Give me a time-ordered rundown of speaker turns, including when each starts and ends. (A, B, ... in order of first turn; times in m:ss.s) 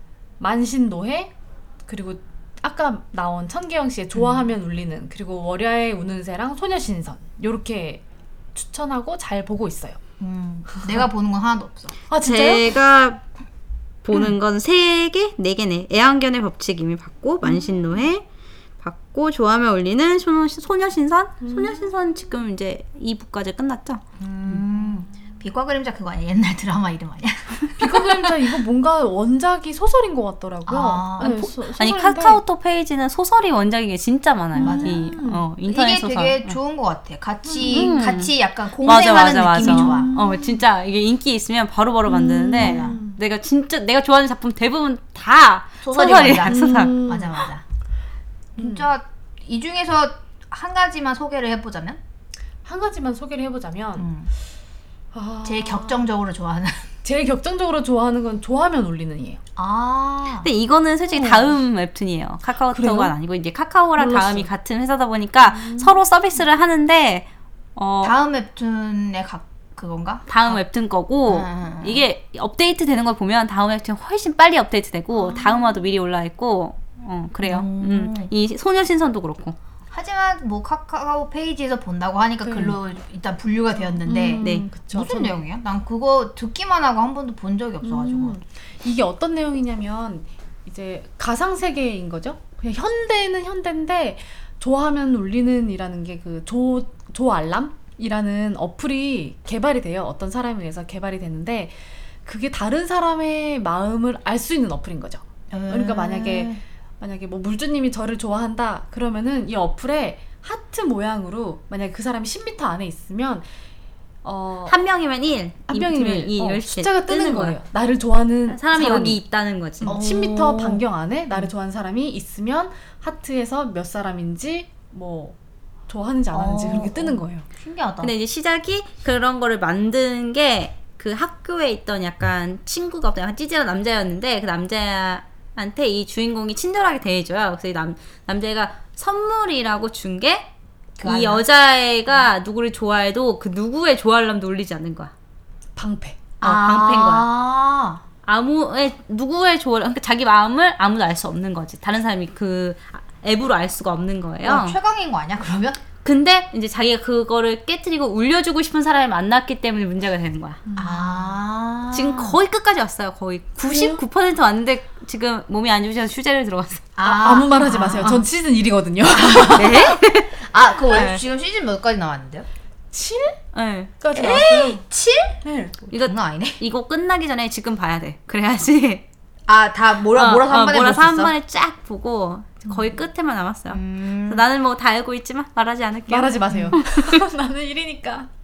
0:00.4-0:01.3 A
0:01.9-0:08.0 A
0:08.5-0:10.0 A
0:10.2-0:11.9 B
0:12.1-0:12.7 A
0:12.2-0:13.2 C
0:14.0-0:18.2 C
0:18.8-0:24.0 C
0:21.4-0:21.9 A
0:24.2-0:28.4 B
0:27.8-0:32.4 A
0:30.7-0:31.4 B
0:31.2-0:36.6 C
0:34.6-0:35.5 A
0:34.6-0:35.2 B
0:35.7-0:40.1 B
0:37.5-0:37.9 A
0:37.6-0:38.3 C
0:38.8-0:47.1 C
0:39.6-0:40.6 A
0:42.1-0:43.2 A
0:42.6-0:43.0 B
0:45.8-0:47.6 B
0:46.4-0:47.5 A
0:48.6-0:52.0 B
0:48.6-0:48.8 A
0:52.6-0:54.1 A
0:54.0-0:54.3 B
0:55.1-0:56.1 A
0:55.4-0:56.9 B
0:57.0-0:59.4 A
0:59.6-1:00.5 B
1:00.4-1:08.1 C
1:01.1-1:01.5 A
1:02.7-1:03.2 A
1:04.0-1:04.5 A
1:05.5-1:06.0 A
1:08.0-1:10.6 B
1:10.3-1:19.6 C
1:11.3-1:12.0 B
1:15.2-1:15.6 A
1:17.4-1:18.3 B
1:19.9-1:28.4 B
1:22.4-1:22.8 A
1:24.1-1:25.4 A
1:24.4-1:24.7 C
1:27.8-1:53.5 A
1:45.5-1:46.6 B
1:54.2-1:54.8 A
1:54.7-1:57.6 C
1:55.7-1:59.2 A
1:58.5-2:00.0 C
1:58.8-1:59.1 B
1:59.8-2:05.4 A
1:59.9-2:00.8 B
2:05.9-2:07.5 A
2:06.3-2:08.1 B
2:08.0-2:20.5 C
2:21.0-2:21.4 B
2:21.0-2:25.1 C
2:25.8-2:26.2 A
2:26.4-2:27.3 C
2:26.4-2:28.0 B
2:28.2-2:34.8 C
2:34.4-2:35.8 B
2:36.0-2:40.6 C
2:40.7-2:41.3 A
2:40.8-2:42.4 B
2:41.9-2:46.9 C
2:43.7-2:44.0 A
2:47.0-2:48.2 B
2:47.0-2:49.9 A
2:49.4-2:52.5 B
2:49.6-2:51.2 C
2:52.9-2:53.4 A
2:53.5-2:53.9 C
2:54.0-2:54.8 A
2:54.1-2:56.6 B
2:55.4-2:55.8 A
2:55.9-2:59.0 C
2:59.5-3:01.3 B
3:00.2-3:07.2 C
3:03.7-3:04.4 B
3:06.1-3:08.3 A